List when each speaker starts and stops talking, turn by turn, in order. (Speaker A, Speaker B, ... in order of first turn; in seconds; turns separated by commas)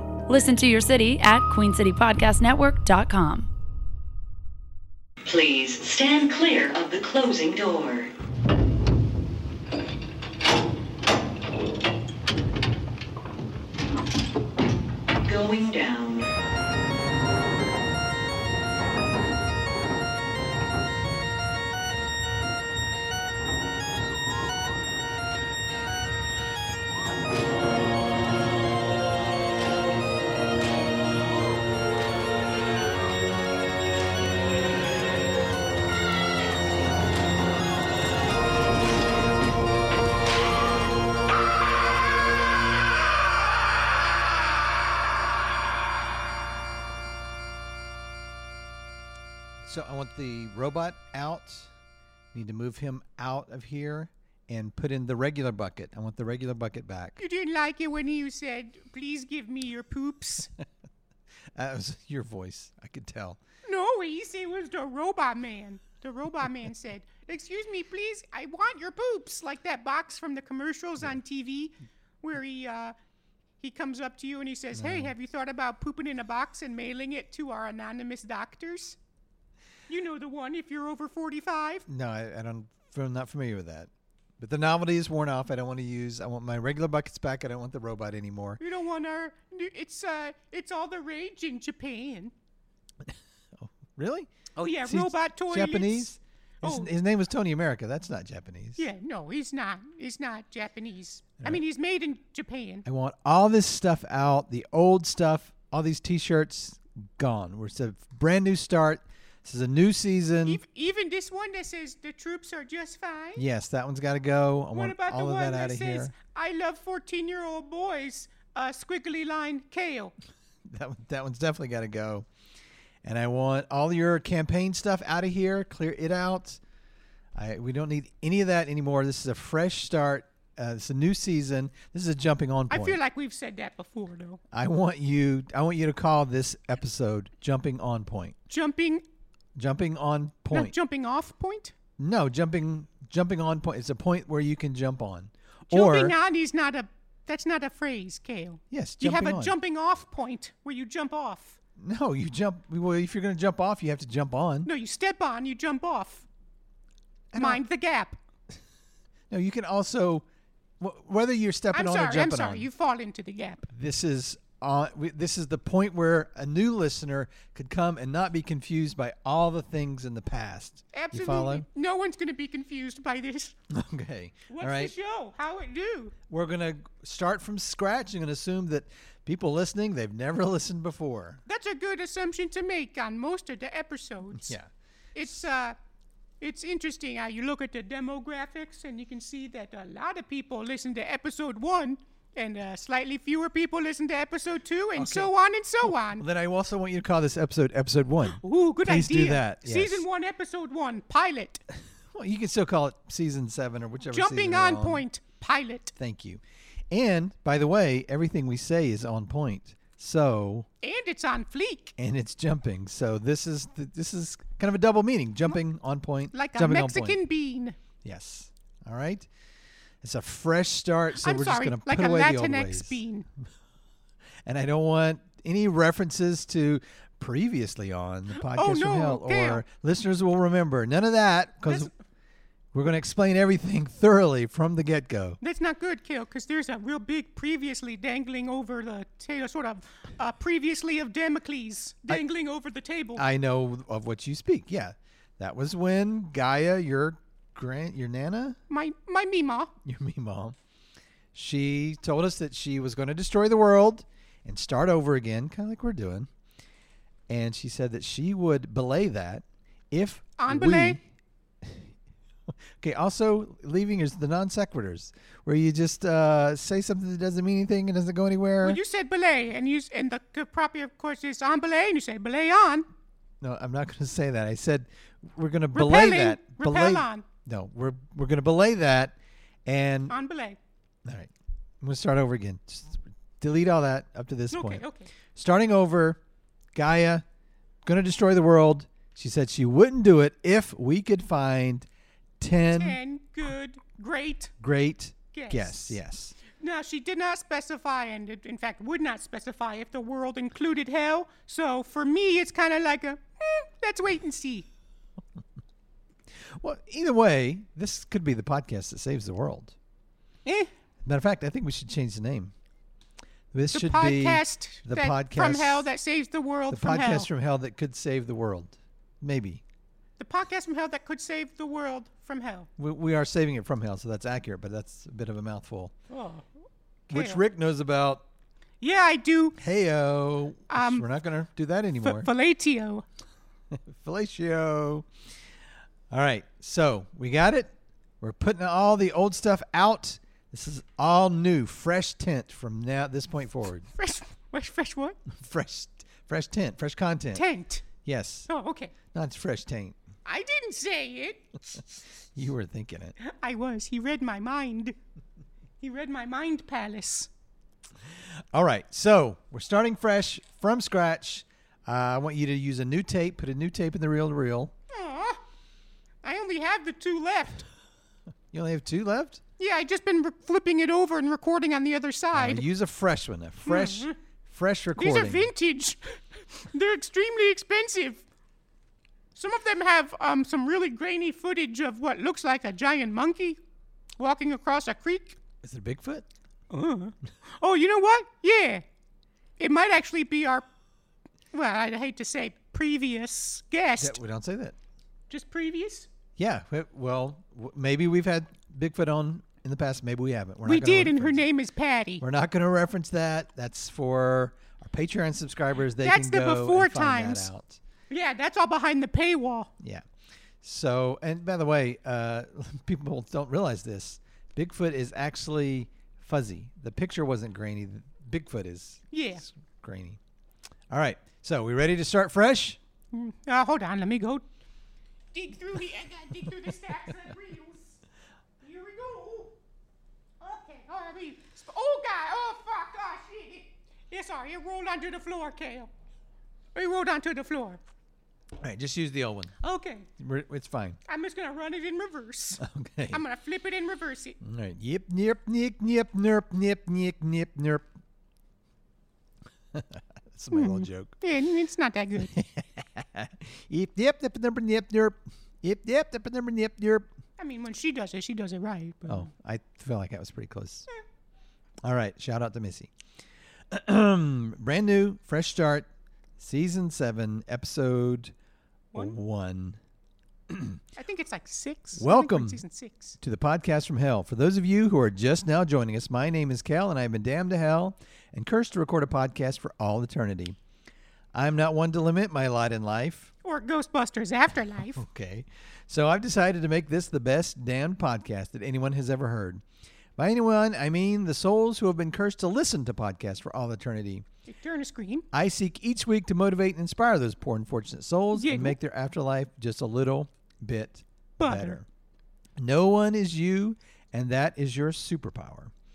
Speaker A: 0.3-3.5, Speaker B: 5.2-8.1, Speaker B: 15.2-16.3, Speaker C: 49.6-51.7, Speaker C: 52.3-57.2, Speaker D: 57.2-60.5, Speaker C: 61.5-63.4, Speaker D: 63.6-72.9, Speaker D: 73.6-79.0, Speaker C: 74.7-75.1, Speaker D: 79.9-81.8, Speaker C: 81.9-88.6, Speaker D: 88.6-92.3, Speaker C: 93.0-94.3, Speaker D: 94.5-96.9, Speaker C: 94.8-98.8, Speaker D: 98.8-102.8, Speaker C: 102.8-110.6, Speaker D: 110.4-113.4, Speaker C: 113.3-116.1, Speaker D: 114.7-120.1, Speaker C: 120.7-122.3, Speaker C: 123.0-126.6, Speaker C: 127.3-133.0, Speaker D: 132.7-134.4, Speaker C: 134.5-138.3, Speaker D: 138.5-139.0, Speaker C: 139.6-140.7, Speaker D: 140.5-141.7, Speaker C: 142.0-146.2, Speaker D: 145.7-151.6, Speaker C: 148.7-149.5, Speaker C: 151.8-154.7, Speaker D: 154.6-156.2, Speaker C: 157.3-157.6, Speaker D: 157.3-158.2, Speaker C: 159.3-160.2, Speaker C: 160.8-162.7, Speaker D: 161.7-163.7, Speaker C: 163.7-171.7, Speaker D: 170.9-173.5, Speaker C: 173.7-174.9, Speaker D: 174.5-176.2, Speaker C: 176.3-181.4, Speaker D: 181.4-184.5, Speaker C: 184.3-184.7, Speaker D: 185.1-185.8, Speaker D: 186.4-196.2, Speaker C: 194.9-200.0, Speaker D: 198.4-201.6, Speaker C: 202.1-205.1, Speaker D: 204.1-205.9, Speaker C: 205.9-210.7, Speaker D: 210.8-211.9, Speaker C: 212.0-217.2, Speaker D: 216.3-217.8, Speaker C: 218.0-219.3, Speaker C: 220.0-223.0, Speaker D: 221.2-223.2, Speaker C: 224.4-231.9, Speaker D: 228.3-229.6, Speaker C: 232.7-235.4, Speaker D: 235.4-243.2, Speaker C: 243.2-248.6, Speaker D: 248.7-249.7, Speaker C: 249.8-250.6, Speaker C: 251.3-256.3, Speaker C: 257.3-261.0, Speaker D: 260.4-261.0, Speaker C: 261.6-261.9, Speaker C: 262.8-268.8, Speaker D: 268.6-272.9, Speaker C: 273.4-280.2, Speaker D: 275.7-277.2, Speaker D: 280.1-280.6, Speaker C: 281.0-286.2, Speaker D: 284.5-285.1, Speaker C: 286.7-287.2, Speaker C: 287.8-291.9, Speaker C: 292.4-293.0, Speaker D: 292.7-294.5, Speaker C: 294.6-296.4, Speaker D: 295.3-304.7, Speaker C: 306.3-309.7, Speaker D: 310.4-310.7, Speaker C: 311.0-312.5, Speaker C: 313.5-315.9, Speaker D: 313.7-317.3, Speaker C: 316.7-319.6, Speaker D: 320.2-322.7, Speaker C: 322.8-325.9, Speaker D: 326.1-326.5, Speaker D: 327.1-327.4, Speaker C: 327.1-328.2, Speaker D: 328.8-329.6, Speaker C: 329.6-332.3, Speaker D: 330.7-331.0, Speaker D: 332.0-333.0, Speaker C: 333.7-335.1, Speaker C: 336.1-343.9, Speaker D: 343.9-345.2, Speaker C: 345.3-347.4, Speaker D: 347.3-347.8, Speaker C: 348.0-348.5, Speaker D: 348.5-348.9, Speaker C: 349.1-349.9, Speaker D: 350.2-351.4, Speaker C: 352.3-353.1, Speaker D: 353.2-354.9, Speaker D: 355.8-357.3, Speaker C: 358.1-364.7, Speaker D: 364.9-365.4, Speaker D: 366.2-367.6, Speaker C: 368.5-369.4, Speaker D: 369.6-372.6, Speaker C: 372.3-375.5, Speaker D: 373.6-374.1, Speaker D: 374.9-378.2, Speaker D: 379.3-383.6, Speaker D: 384.2-385.4, Speaker C: 385.6-386.3, Speaker D: 386.7-388.8, Speaker D: 389.6-390.6, Speaker D: 391.5-394.2, Speaker C: 394.0-394.8, Speaker D: 395.3-396.1, Speaker C: 396.4-401.4, Speaker D: 400.6-402.2, Speaker C: 402.2-407.8, Speaker D: 406.0-407.5, Speaker D: 408.1-409.7, Speaker C: 409.8-410.1, Speaker C: 410.6-420.2, Speaker D: 419.1-419.4, Speaker C: 420.9-422.8, Speaker D: 423.1-424.4, Speaker D: 425.3-428.0, Speaker D: 428.6-429.5, Speaker D: 430.4-435.9, Speaker D: 436.7-437.8, Speaker C: 438.6-439.5, Speaker D: 439.6-440.1, Speaker C: 440.2-441.0, Speaker D: 441.1-444.4, Speaker C: 442.6-443.2, Speaker C: 444.4-447.9, Speaker C: 449.7-451.1, Speaker D: 450.5-452.3, Speaker C: 452.2-457.1, Speaker D: 457.4-459.3, Speaker C: 459.1-460.9, Speaker C: 461.8-462.9, Speaker C: 463.7-468.3, Speaker C: 468.9-469.8, Speaker C: 470.5-470.8, Speaker D: 471.0-473.2, Speaker C: 471.9-472.6, Speaker C: 473.2-480.6, Speaker C: 481.3-483.3, Speaker D: 483.4-485.0, Speaker C: 484.9-489.6, Speaker C: 490.1-494.2, Speaker D: 494.5-495.3, Speaker C: 495.3-501.9, Speaker D: 498.3-498.8, Speaker D: 501.4-501.8, Speaker C: 502.6-505.7